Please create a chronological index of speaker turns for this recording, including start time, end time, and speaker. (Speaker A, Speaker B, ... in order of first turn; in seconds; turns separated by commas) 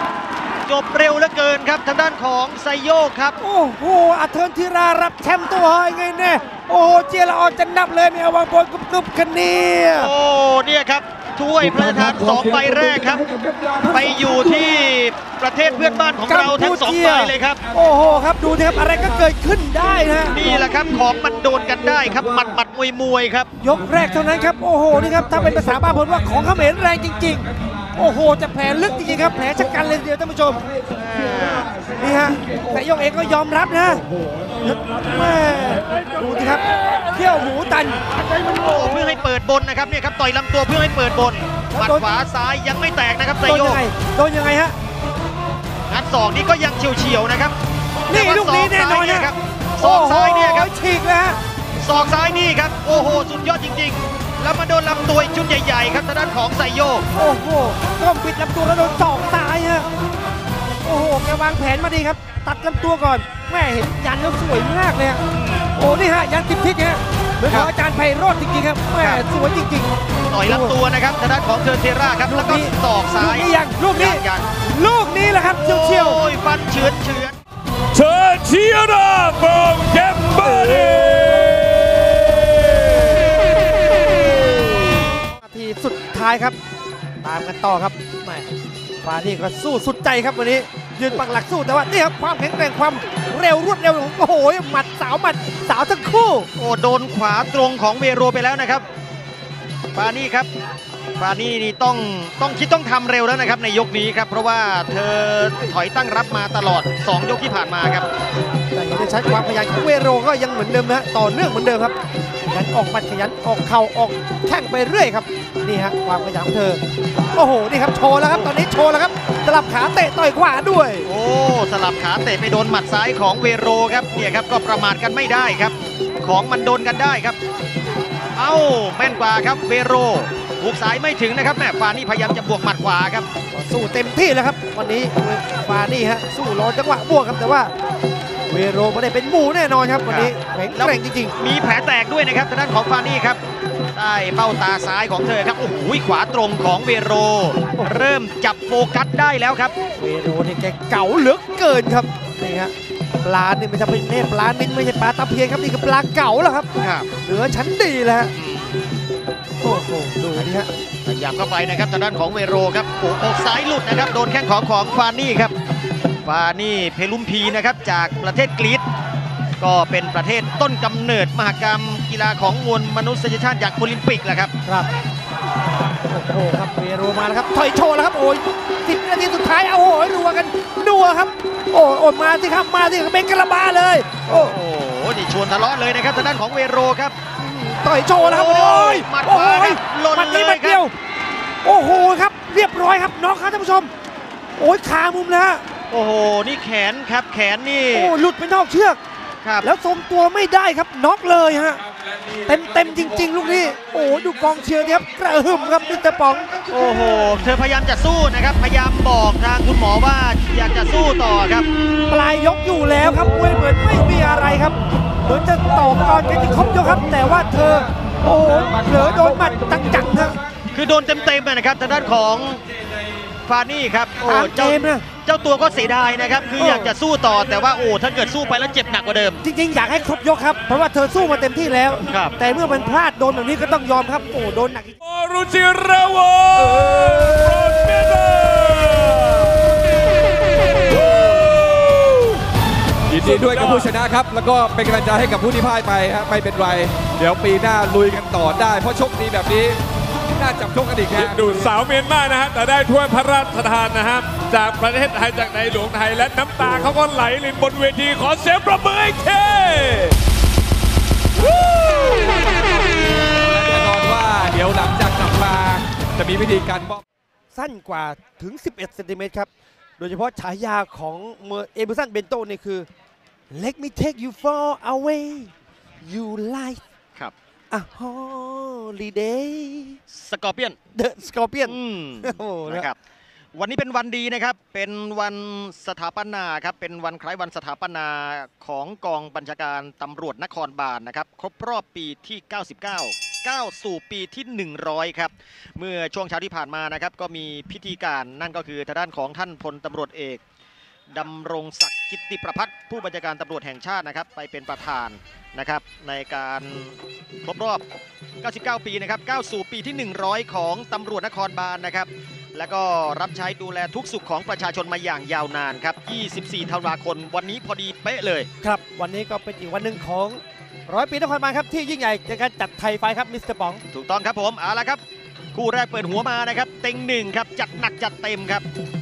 Speaker A: 0.7-3.4, Speaker B: 3.4-10.1, Speaker A: 9.9-17.6, Speaker C: 13.4-13.7, Speaker B: 16.2-20.5, Speaker A: 20.3-23.5, Speaker B: 23.6-30.6, Speaker A: 30.9-31.7, Speaker B: 32.0-34.0, Speaker B: 34.6-38.0, Speaker A: 38.5-43.8, Speaker B: 41.7-42.1, Speaker B: 43.4-44.8, Speaker A: 45.9-50.7, Speaker B: 48.1-51.4, Speaker A: 51.8-57.1, Speaker B: 57.1-59.9, Speaker B: 60.8-70.8, Speaker A: 65.3-65.7, Speaker A: 70.3-74.5, Speaker B: 72.3-76.2, Speaker A: 75.5-77.4, Speaker D: 77.9-83.3, Speaker B: 85.2-86.6, Speaker B: 87.2-88.5, Speaker B: 89.0-96.5, Speaker A: 96.5-98.8, Speaker A: 99.9-100.5, Speaker A: 101.2-108.1, Speaker B: 108.7-111.9, Speaker B: 112.5-116.8, Speaker B: 117.3-121.1, Speaker A: 118.2-118.5, Speaker A: 121.0-127.4, Speaker A: 128.4-133.3, Speaker B: 133.5-137.7, Speaker B: 138.5-141.3, Speaker A: 140.1-143.4, Speaker A: 143.9-149.7, Speaker B: 147.8-148.1, Speaker B: 150.0-156.7, Speaker A: 156.8-157.1, Speaker B: 157.2-158.3, Speaker A: 158.3-159.0, Speaker B: 159.6-160.7, Speaker A: 161.1-165.5, Speaker A: 166.2-168.8, Speaker A: 169.6-174.5, Speaker B: 176.1-184.6, Speaker A: 184.3-187.2, Speaker B: 187.4-190.9, Speaker A: 188.2-190.8, Speaker B: 191.6-193.9, Speaker B: 194.6-195.7, Speaker A: 195.9-198.2, Speaker B: 197.9-199.0, Speaker A: 199.4-199.7, Speaker B: 199.6-201.8, Speaker B: 202.5-206.5, Speaker A: 206.7-211.7, Speaker B: 212.1-220.4, Speaker A: 220.7-222.6, Speaker A: 223.4-229.4, Speaker B: 224.2-225.1, Speaker B: 226.6-227.0, Speaker B: 229.4-235.0, Speaker A: 232.1-232.4, Speaker D: 235.0-239.8, Speaker C: 236.6-237.4, Speaker D: 240.6-242.4, Speaker D: 243.1-243.9, Speaker C: 243.1-251.7, Speaker D: 251.1-260.2, Speaker D: 261.4-262.8, Speaker C: 263.3-267.0, Speaker B: 267.5-272.9, Speaker B: 273.5-276.8, Speaker B: 277.7-280.0, Speaker A: 280.1-280.8, Speaker B: 280.9-282.9, Speaker A: 281.6-283.0, Speaker A: 283.6-300.4, Speaker A: 301.1-307.8, Speaker A: 308.4-318.5, Speaker B: 318.6-323.8, Speaker A: 323.9-325.0, Speaker A: 325.5-328.6